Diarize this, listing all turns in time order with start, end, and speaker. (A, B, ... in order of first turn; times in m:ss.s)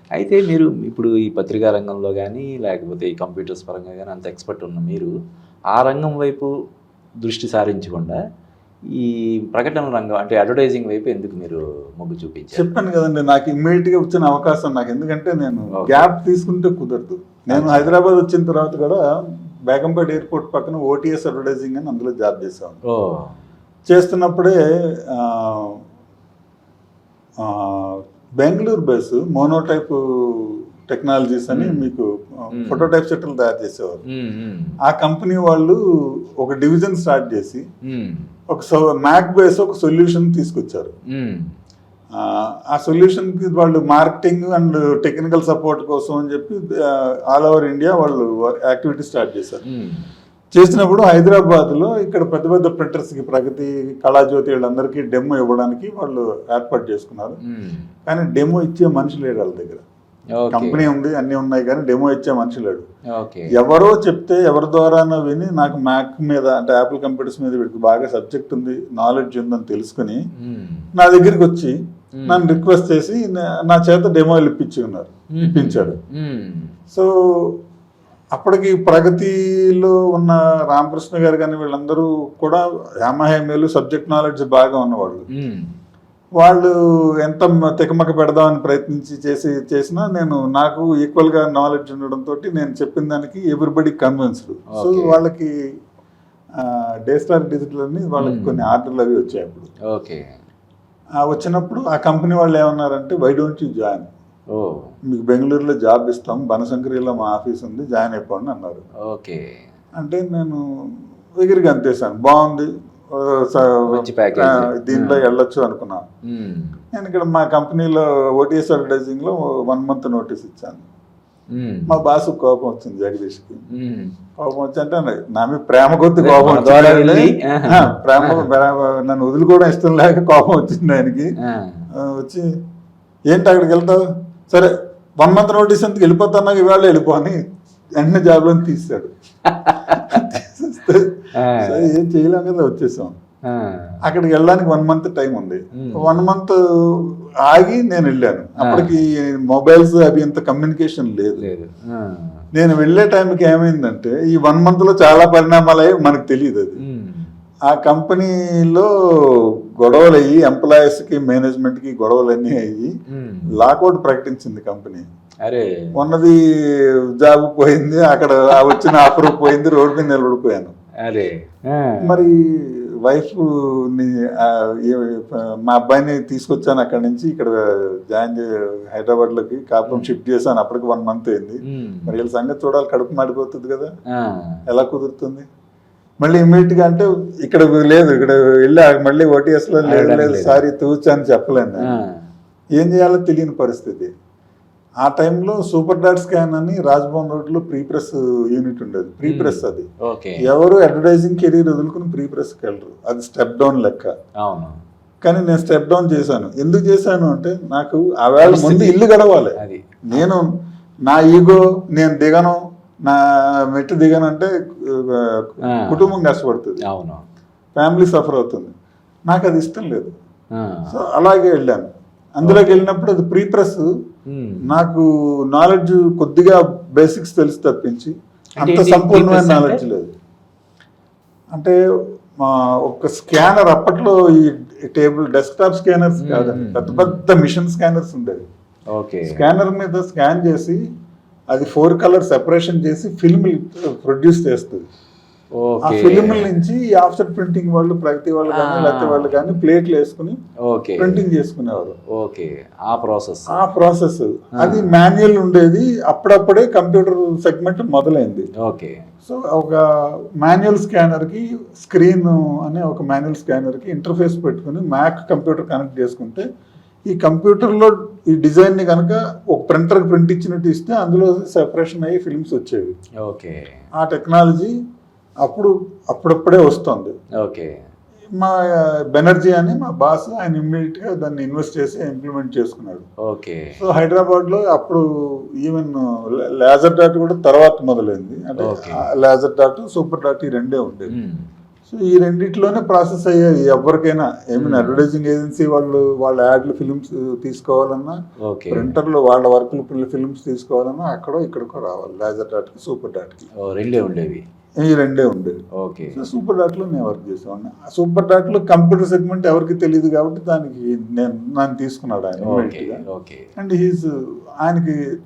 0:00.2-0:05.1 A
0:05.7-0:06.5 A
0:07.2-0:08.2 A
0:09.0-0:12.7 A
0:12.5-0:19.0 B
0:15.8-0:16.1 A
0:17.5-0:18.0 A
0:19.7-0:22.8 B
0:22.9-0:23.3 A
0:23.9-0:24.6 B
0:25.1-0:25.8 B
0:27.4-0:34.0 B
0:31.5-0:31.8 A
0:32.6-0:32.9 A
0:34.1-0:34.8 A
0:34.8-0:35.8 B
0:36.4-0:37.6 B
0:37.9-0:38.2 A
0:38.5-0:40.9 B
0:41.1-0:41.5 A
0:42.2-0:49.6 B
0:49.7-0:50.1 A
0:50.5-0:57.4 B
0:57.5-0:57.8 A
0:58.1-0:59.8 B
1:00.4-1:00.8 A
1:00.5-1:02.8 B
1:03.2-1:03.5 A
1:03.5-1:10.2 B
1:10.4-1:10.9 A
1:11.0-1:11.8 B
1:12.2-1:12.6 A
1:12.3-1:16.0 B
1:15.4-1:16.7 A
1:16.9-1:17.6 B
1:18.3-1:25.3 B
1:25.4-1:25.7 A
1:26.4-1:35.5 B
1:34.7-1:35.2 A
1:36.6-1:39.7 B
1:38.2-1:38.7 A
1:39.9-1:40.2 A
1:41.2-1:44.1 B
1:44.5-1:44.9 A
1:45.1-1:48.8 B
1:49.1-1:49.4 A
1:50.0-1:50.6 B
1:51.4-1:56.0 B
1:53.9-1:55.2 A
1:56.3-1:56.8 A
1:56.9-2:00.8 B
2:01.6-2:02.0 A
2:01.9-2:03.6 B
2:03.8-2:04.1 A
2:04.4-2:11.3 B
2:06.2-2:08.4 A
2:11.5-2:11.8 A
2:12.0-2:12.5 B
2:13.3-2:17.4 B
2:18.0-2:19.1 B
2:19.5-2:20.2 A
2:20.1-2:23.2 B
2:21.4-2:21.9 A
2:23.5-2:24.0 A
2:24.0-2:31.5 B
2:25.8-2:26.2 A
2:28.6-2:28.9 A
2:31.4-2:32.4 A
2:32.5-2:36.8 B
2:36.8-2:37.3 A
2:37.7-2:42.9 B
2:43.1-2:43.5 A
2:43.5-2:45.1 B
2:45.5-2:45.9 A
2:46.0-2:46.4 B
2:47.2-2:50.7 B
2:48.7-2:49.5 A
2:51.0-2:52.2 A
2:52.0-3:03.9 B
2:59.9-3:00.1 A
3:01.7-3:02.1 A
3:04.2-3:04.6 A
3:04.7-3:05.5 B
3:06.2-3:11.9 B
3:09.8-3:10.6 A
3:11.8-3:12.2 A
3:12.8-3:14.1 B
3:15.0-3:19.9 B
3:19.2-3:20.4 A
3:20.4-3:24.1 B
3:24.4-3:24.8 A
3:25.2-3:29.6 B
3:28.4-3:29.0 A
3:29.6-3:30.2 A
3:30.1-3:30.5 B
3:31.1-3:33.2 B
3:33.7-3:36.8 B
3:35.8-3:36.1 A
3:36.8-3:37.2 A
3:37.8-3:38.7 B
3:39.3-3:40.1 B
3:40.6-3:40.9 A
3:40.9-3:43.9 B
3:42.4-3:42.8 A
3:44.3-3:44.6 A
3:44.7-3:50.1 B
3:48.6-3:49.8 A
3:52.4-3:58.4 B
3:56.2-3:57.2 A
3:58.9-3:59.4 A
3:59.3-4:00.8 B
4:01.5-4:04.9 B
4:05.6-4:06.5 A
4:05.8-4:10.4 B
4:08.5-4:09.6 A
4:10.7-4:11.2 A
4:11.0-4:12.0 B
4:12.1-4:13.6 A
4:13.5-4:18.5 B
4:14.6-4:14.9 A
4:18.6-4:19.0 A
4:19.2-4:19.9 B
4:20.4-4:26.4 B
4:27.1-4:32.9 B
4:33.2-4:33.7 A
4:34.0-4:34.7 B
4:35.4-4:37.2 B
4:37.4-4:37.8 A
4:38.4-4:43.1 B
4:43.3-4:43.8 A
4:43.8-4:45.0 B
4:45.6-4:51.2 B
4:48.6-4:49.1 A
4:51.1-4:51.4 A
4:51.9-4:58.2 B
4:54.6-4:55.0 A
4:58.4-4:59.0 A
4:58.7-5:03.5 B
5:03.6-5:04.4 A
5:04.8-5:05.6 B
5:05.8-5:06.2 A
5:06.2-5:13.0 B
5:12.4-5:13.5 A
5:13.6-5:14.1 B
5:14.6-5:15.0 B